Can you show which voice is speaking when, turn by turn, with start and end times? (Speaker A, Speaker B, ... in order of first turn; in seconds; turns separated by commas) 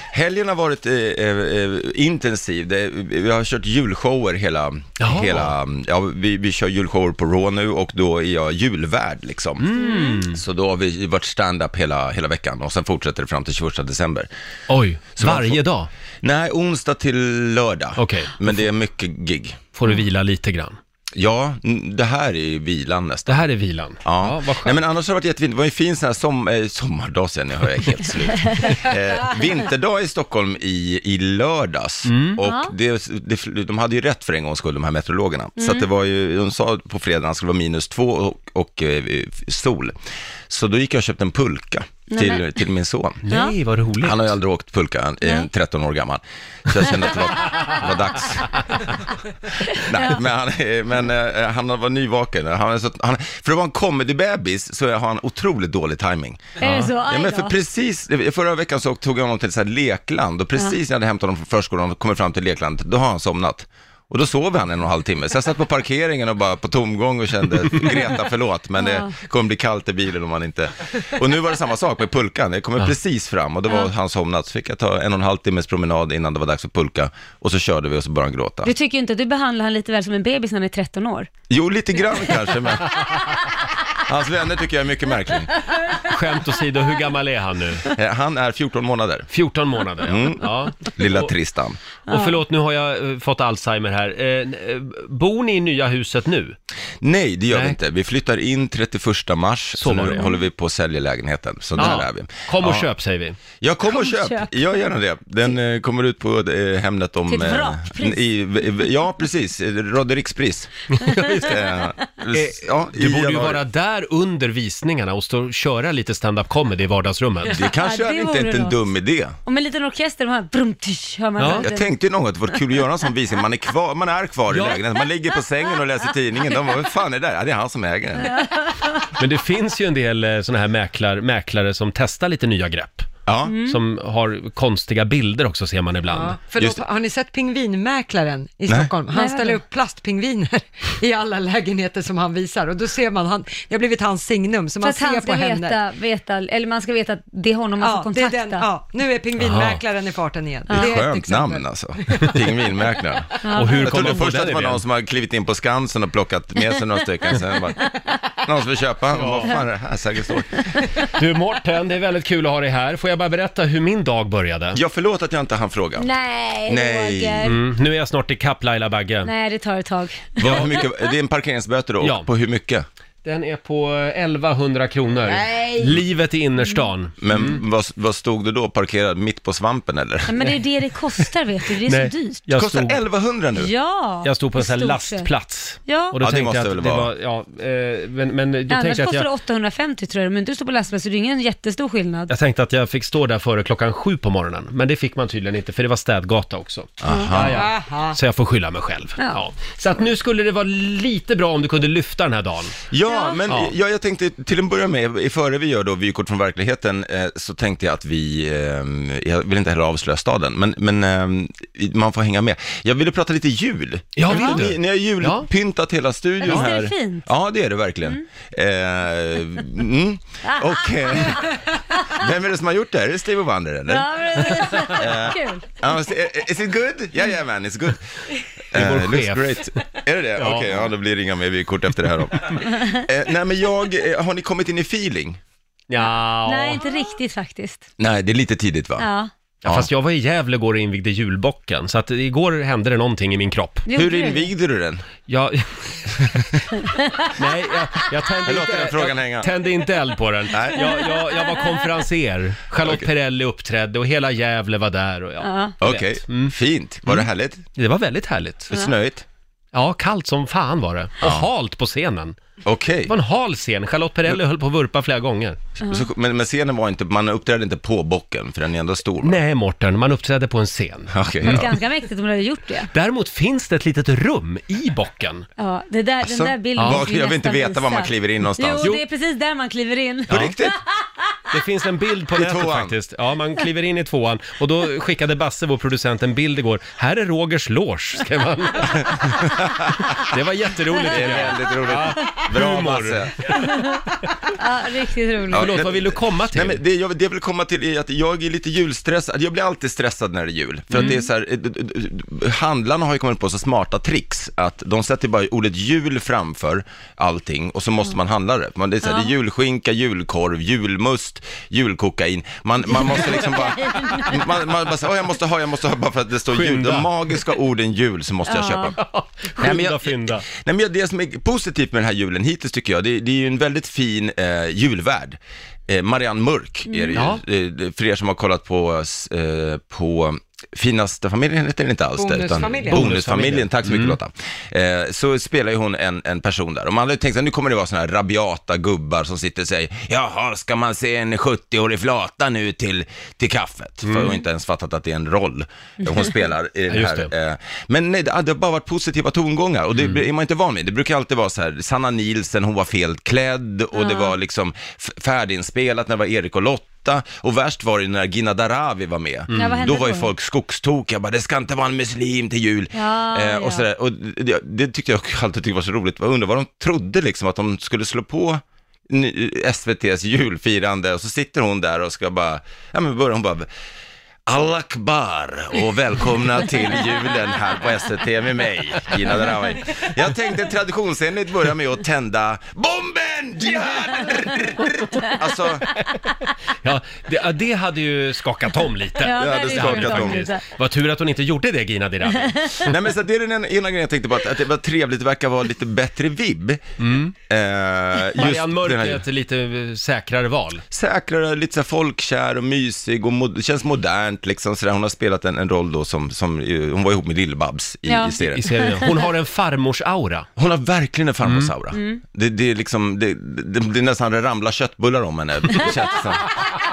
Speaker A: 0.1-14.3, Speaker B: 5.0-5.5, Speaker B: 9.6-10.4, Speaker B: 14.7-15.9, Speaker A: 15.2-15.6, Speaker A: 16.2-19.6, Speaker B: 17.9-18.5, Speaker B: 19.7-20.8, Speaker A: 21.1-23.4, Speaker B: 23.3-24.8, Speaker A: 24.0-39.9, Speaker B: 32.0-32.4, Speaker C: 32.4-32.7, Speaker C: 35.6-35.9, Speaker A: 40.5-43.2, Speaker C: 42.1-42.4, Speaker B: 43.2-44.3, Speaker C: 43.3-43.5, Speaker A: 44.0-48.9, Speaker C: 49.7-50.1, Speaker A: 49.8-78.7, Speaker C: 56.6-57.5, Speaker B: 56.6-56.9, Speaker C: 68.8-69.1, Speaker C: 78.6-81.3, Speaker A: 81.5-83.1, Speaker C: 82.5-83.7, Speaker A: 84.0-85.7, Speaker C: 85.7-86.0, Speaker B: 86.0-87.8, Speaker A: 87.9-89.3, Speaker B: 89.3-91.3, Speaker A: 90.0-91.8, Speaker C: 92.1-92.4, Speaker B: 92.1-96.5, Speaker A: 97.0-102.9, Speaker B: 97.5-97.8, Speaker B: 99.8-100.2, Speaker C: 100.1-100.4, Speaker B: 101.8-103.4, Speaker A: 103.6-113.6, Speaker C: 103.9-104.6, Speaker C: 107.3-108.7, Speaker B: 111.0-111.6, Speaker C: 111.0-111.9, Speaker B: 112.3-117.6, Speaker A: 117.5-119.4, Speaker C: 117.5-118.8, Speaker C: 119.5-121.9, Speaker B: 121.4-121.7, Speaker A: 121.4-128.4, Speaker B: 124.5-124.8, Speaker C: 128.2-129.1, Speaker B: 129.2-133.1, Speaker A: 133.2-133.6, Speaker C: 133.4-133.8, Speaker B: 133.6-136.4, Speaker D: 136.1-145.8, Speaker A: 136.6-136.8, Speaker C: 139.1-139.6, Speaker C: 144.8-148.7, Speaker D: 147.8-152.4, Speaker B: 149.4-149.8, Speaker C: 150.7-151.0, Speaker A: 150.7-157.8, Speaker C: 153.4-154.1, Speaker B: 153.5-154.8, Speaker C: 157.7-158.2, Speaker A: 158.4-160.7, Speaker B: 159.1-159.6, Speaker B: 161.1-164.8, Speaker A: 164.7-166.1, Speaker C: 166.0-167.6, Speaker A: 166.7-167.4, Speaker B: 167.4-169.3, Speaker C: 169.2-170.8, Speaker A: 170.4-172.8, Speaker B: 170.4-170.7, Speaker B: 172.0-172.3, Speaker B: 173.2-177.6, Speaker C: 175.2-176.0, Speaker C: 176.6-176.9, Speaker A: 177.2-180.4, Speaker C: 180.3-182.4, Speaker B: 181.8-183.0, Speaker A: 182.5-183.7, Speaker C: 183.5-185.3, Speaker B: 184.2-189.3, Speaker C: 185.8-186.2, Speaker A: 186.2-187.1, Speaker C: 188.7-192.3, Speaker B: 192.3-202.8, Speaker A: 197.0-197.6, Speaker C: 197.0-197.4, Speaker D: 197.5-198.2, Speaker C: 199.2-199.4, Speaker A: 202.9-228.0, Speaker C: 203.0-203.5, Speaker B: 214.2-215.5, Speaker C: 214.3-214.6, Speaker C: 216.4-217.3, Speaker C: 220.5-221.5, Speaker C: 223.9-225.8, Speaker A: 228.7-235.4, Speaker B: 228.7-229.6, Speaker B: 230.4-230.9, Speaker B: 235.9-236.8, Speaker C: 236.4-237.8, Speaker A: 238.0-239.1, Speaker C: 239.0-239.3, Speaker A: 239.6-239.9, Speaker B: 239.6-243.8, Speaker C: 243.8-244.5, Speaker A: 243.9-245.1, Speaker B: 245.2-246.3, Speaker C: 247.0-247.2, Speaker B: 247.3-256.5, Speaker A: 248.4-249.5, Speaker A: 250.5-251.1, Speaker A: 252.8-253.1, Speaker C: 255.4-255.8, Speaker A: 255.8-257.6, Speaker B: 257.1-258.7, Speaker A: 258.7-259.2, Speaker B: 259.7-262.4, Speaker A: 261.2-261.5, Speaker A: 262.6-263.1, Speaker B: 263.1-265.6, Speaker A: 265.8-269.4, Speaker B: 269.2-271.6, Speaker A: 271.1-271.7, Speaker C: 271.4-272.9, Speaker B: 272.9-275.4, Speaker C: 275.6-280.7, Speaker A: 276.2-278.9, Speaker B: 276.8-277.1, Speaker A: 280.3-280.8, Speaker B: 281.5-289.3, Speaker A: 282.4-283.0, Speaker A: 289.1-290.0, Speaker B: 290.0-293.5, Speaker A: 291.0-293.6, Speaker C: 293.6-295.7, Speaker A: 295.5-318.9, Speaker B: 295.5-296.8, Speaker C: 300.9-301.2, Speaker C: 309.0-309.3, Speaker C: 312.9-314.4, Speaker B: 316.5-317.1, Speaker C: 318.4-318.9, Speaker B: 318.9-320.4, Speaker A: 319.6-373.7, Speaker C: 326.9-327.2, Speaker B: 327.1-327.4, Speaker D: 332.2-333.1, Speaker B: 332.9-334.2, Speaker B: 344.0-344.3, Speaker C: 346.0-346.3, Speaker B: 346.9-347.3, Speaker C: 353.9-354.3, Speaker B: 359.5-359.9, Speaker C: 359.5-360.3, Speaker C: 362.9-363.9, Speaker A: 374.5-385.9, Speaker B: 386.8-392.9, Speaker C: 389.2-390.6, Speaker A: 389.4-390.4, Speaker C: 392.4-392.9, Speaker A: 392.9-396.8, Speaker B: 397.0-397.3, Speaker A: 397.5-399.2, Speaker B: 398.4-400.8, Speaker A: 400.9-408.6, Speaker C: 408.1-409.3, Speaker B: 408.5-410.5, Speaker A: 410.6-416.5, Speaker B: 411.4-411.7, Speaker C: 411.9-412.2